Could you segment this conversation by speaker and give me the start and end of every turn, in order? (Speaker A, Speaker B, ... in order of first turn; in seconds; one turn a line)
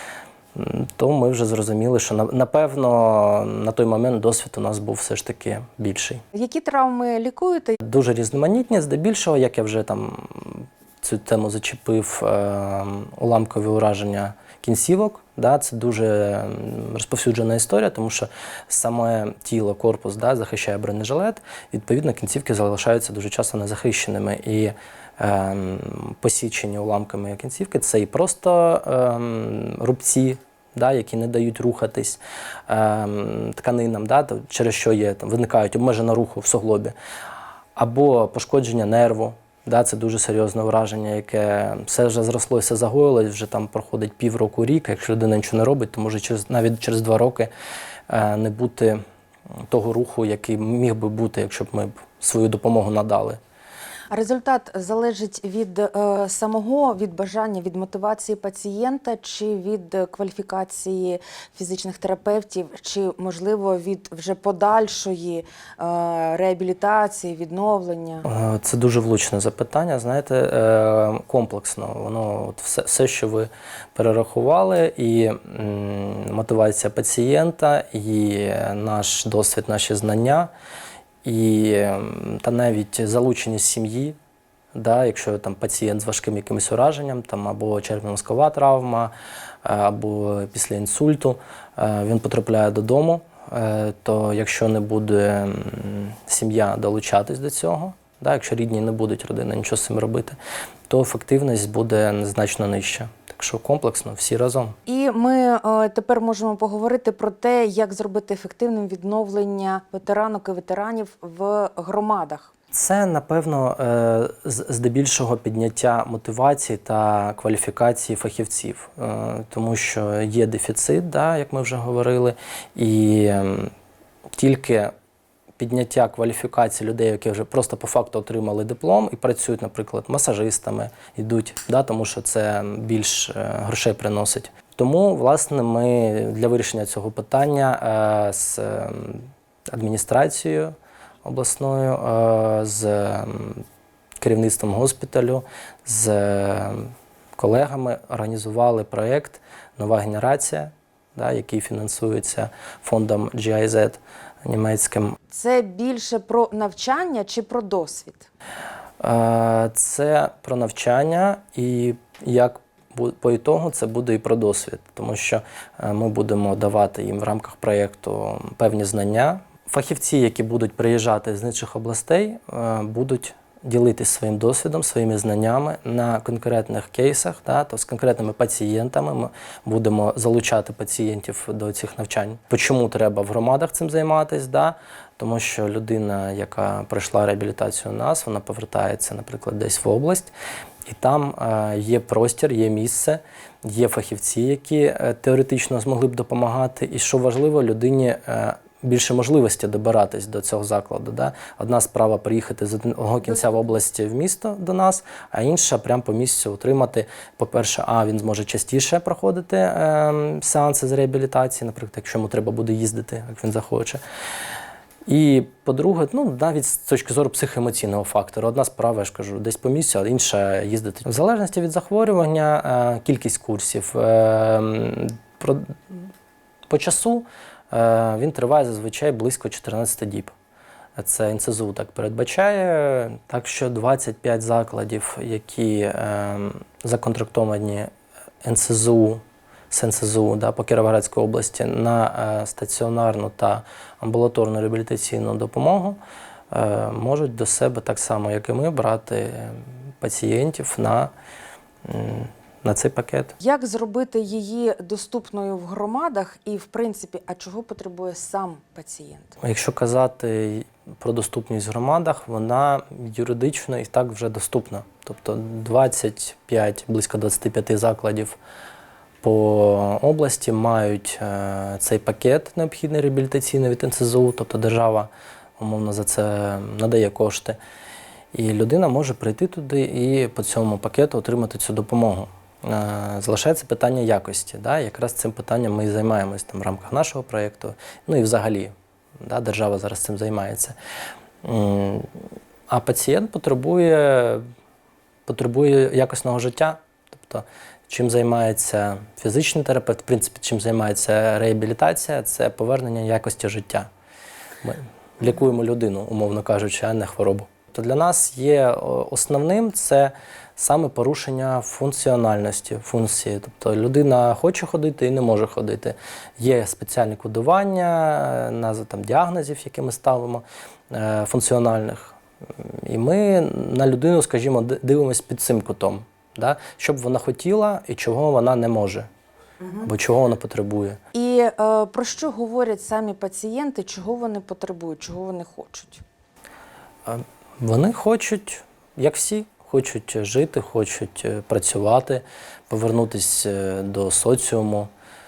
Speaker A: 0.6-6.2
Speaker B: 6.3-7.8
Speaker A: 7.8-37.0
Speaker A: 37.8-47.5
Speaker A: 48.1-49.0
Speaker A: 49.7-53.4
Speaker B: 54.1-68.3
Speaker A: 68.2-80.5
Speaker A: 81.2-84.2
Speaker A: 84.7-89.1
Speaker A: 89.6-100.4
Speaker A: 100.9-104.8
Speaker B: 104.9-112.5
Speaker A: 112.7-123.7
Speaker A: 124.3-124.9
Speaker A: 125.6-143.7
Speaker A: 144.2-155.2
Speaker B: 155.3-158.3
Speaker A: 159.0-190.3
Speaker A: 190.9-214.0
Speaker A: 215.1-226.1
Speaker A: 226.7-230.3
Speaker A: 231.0-237.9
Speaker A: 238.4-246.0
Speaker A: 246.5-251.1
Speaker A: 251.8-253.4
Speaker B: 253.4-259.4
Speaker A: 259.4-268.4
Speaker A: 269.2-277.6
Speaker A: 278.3-290.8
Speaker A: 291.4-294.4
Speaker A: 295.3-303.9
Speaker A: 304.6-329.1
Speaker A: 329.8-331.0
Speaker B: 331.1-336.0
Speaker A: 337.1-344.9